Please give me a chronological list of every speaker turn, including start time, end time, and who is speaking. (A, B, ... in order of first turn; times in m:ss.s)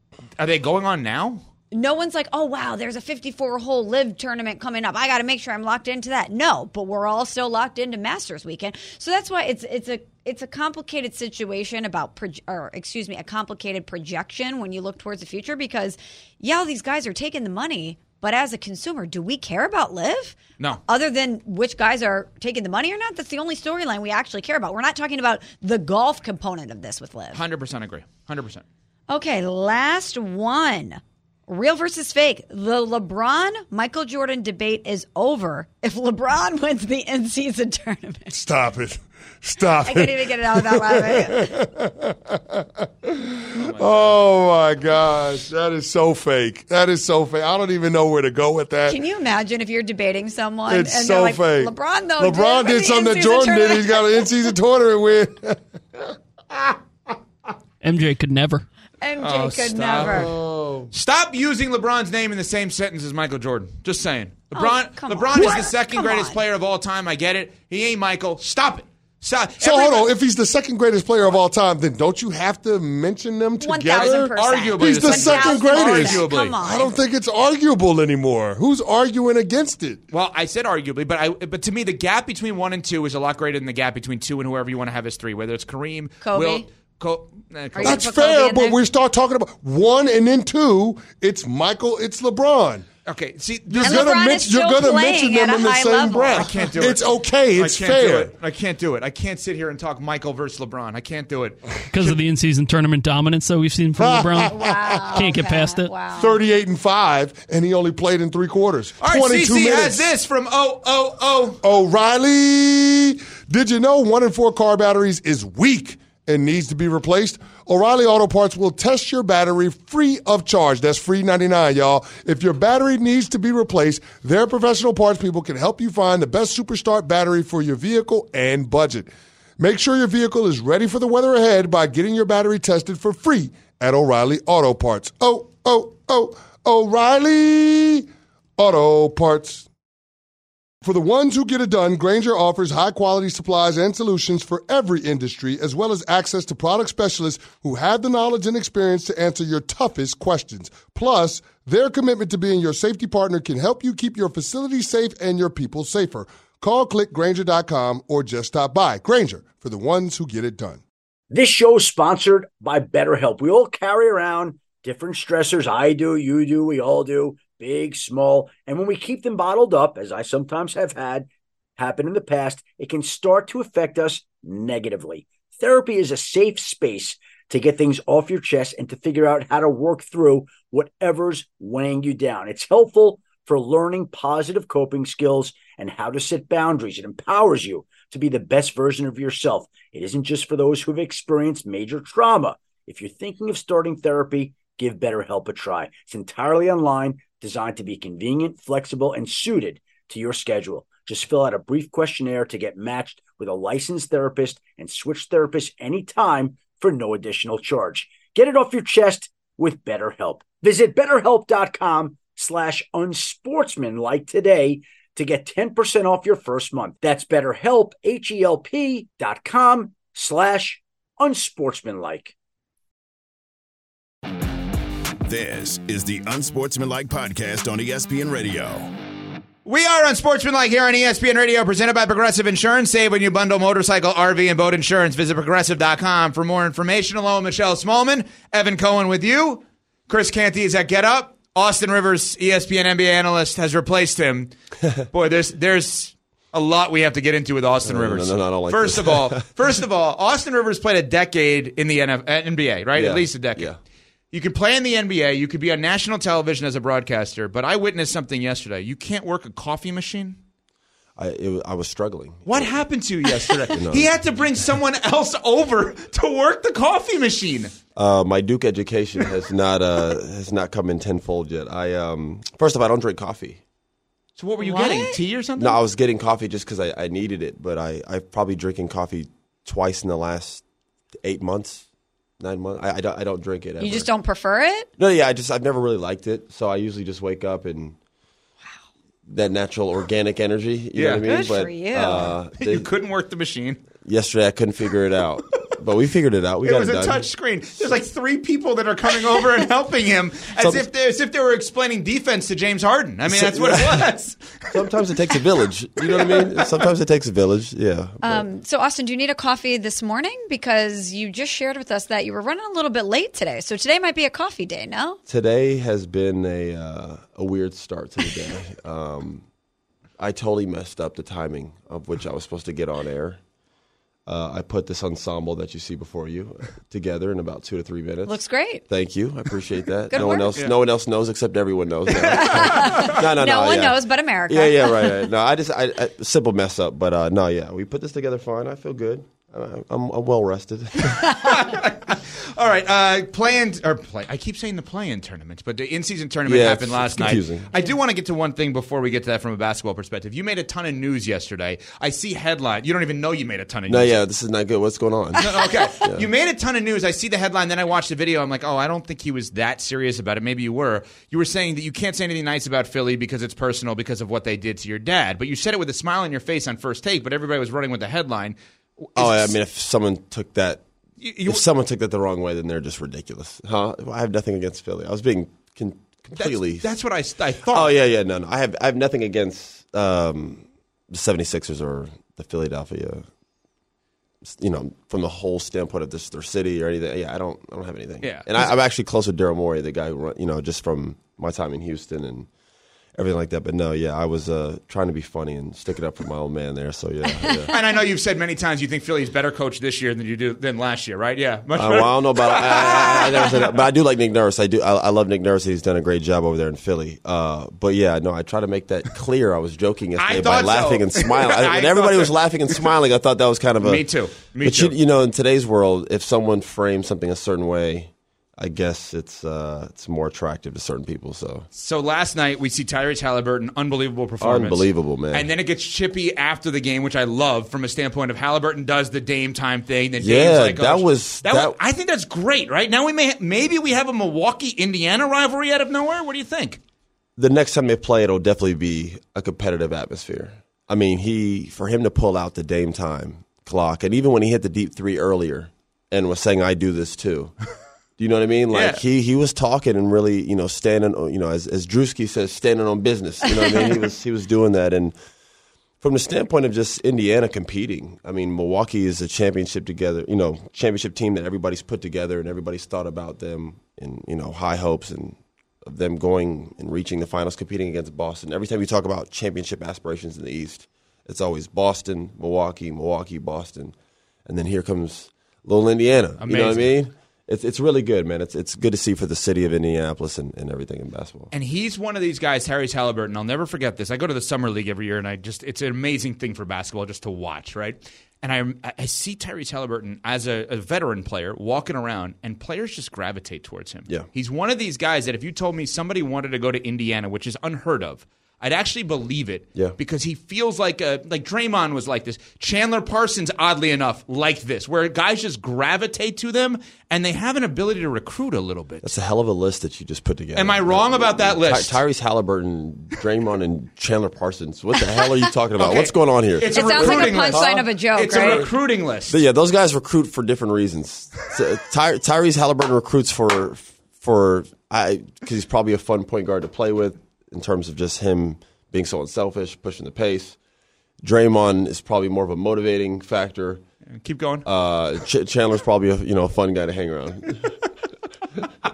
0:00.4-0:01.4 A
0:01.7-0:27.4 B
0:27.3-0:28.6 A
0:29.1-0:38.3 B
0:38.3-0:49.0 C
0:39.8-0:41.5 B
0:43.5-0:44.2 A
0:48.9-0:54.3 B
0:50.7-0:56.8 C
0:57.8-0:58.6 D
0:59.0-1:00.3 B
0:59.2-1:00.3 A
1:00.0-1:00.9 C
1:00.9-1:10.1 A
1:04.5-1:06.4 B
1:09.6-1:20.0 C
1:13.6-1:16.9 B
1:13.9-1:16.5 A
1:20.1-1:28.0 A
1:26.2-1:26.6 B
1:27.7-1:28.8 B
1:27.8-1:32.8 C
1:33.0-1:34.0 A
1:33.7-1:38.3 C
1:33.8-1:36.5 B
1:36.3-1:37.0 A
1:37.6-1:41.7 A
1:41.9-1:44.6 D
1:44.0-1:45.3 C
1:44.5-1:46.3 B
1:45.1-1:45.9 D
1:46.2-1:50.0 C
1:49.0-1:51.6 A
1:51.6-2:19.7 C
2:20.8-2:40.8 C
2:41.3-3:42.3 E
3:45.3-3:48.9 F
3:49.6-4:04.5 A
4:05.1-4:13.7 A
4:07.8-4:09.5 G
4:12.9-4:13.8 G
4:14.3-4:20.4 A
4:21.2-4:22.8 G
4:22.4-4:27.7 A
4:23.6-4:24.2 G
4:28.0-4:33.6 G
4:34.4-4:35.8 A
4:34.6-4:35.2 B
4:35.6-4:40.6 G
4:41.2-4:41.8 G
4:42.4-4:44.1 G
4:43.8-4:44.9 B
4:45.0-4:48.0 G
4:49.3-4:52.9 G
4:50.9-4:51.2 A
4:51.2-4:52.3 B
4:52.6-4:53.8 A
4:54.0-4:57.2 G
4:56.6-5:04.9 A
5:00.5-5:00.9 G
5:03.3-5:04.1 G
5:04.7-5:08.4 G
5:06.1-5:06.8 A
5:08.2-5:15.2 B
5:15.3-5:19.4 G
5:20.2-5:23.4 G
5:24.2-5:41.4 G
5:28.3-5:28.8 B
5:30.1-5:30.5 B
5:30.2-5:30.7 A
5:32.2-5:35.2 B
5:32.3-5:33.2 A
5:41.4-5:54.2 A
5:46.4-5:47.7 G
5:53.9-5:56.3 G
5:55.4-6:08.6 A
6:09.1-6:09.6 A
6:09.2-6:10.8 G
6:11.2-6:11.6 A
6:11.4-6:16.9 G
6:16.3-6:17.9 A
6:17.6-6:23.2 G
6:24.5-6:32.5 G
6:28.2-6:28.7 A
6:33.1-6:37.7 G
6:37.7-6:43.7 A
6:41.7-7:01.7 G
6:50.2-6:52.9 A
6:53.8-6:55.0 A
7:01.7-7:16.8 A
7:04.4-7:05.5 G
7:10.2-7:11.8 G
7:17.4-7:27.6 G
7:28.2-7:35.1 G
7:28.7-7:29.0 A
7:36.0-7:53.9 G
7:54.4-8:01.5 G
7:56.4-7:56.9 A
8:01.5-8:29.2 A
8:29.0-8:38.7 G
8:30.5-8:32.0 A
8:35.8-8:39.4 A
8:36.7-8:38.7 B
8:39.3-8:50.6 G
8:51.2-8:53.8 G
8:54.2-8:54.7 A
8:54.6-8:57.6 G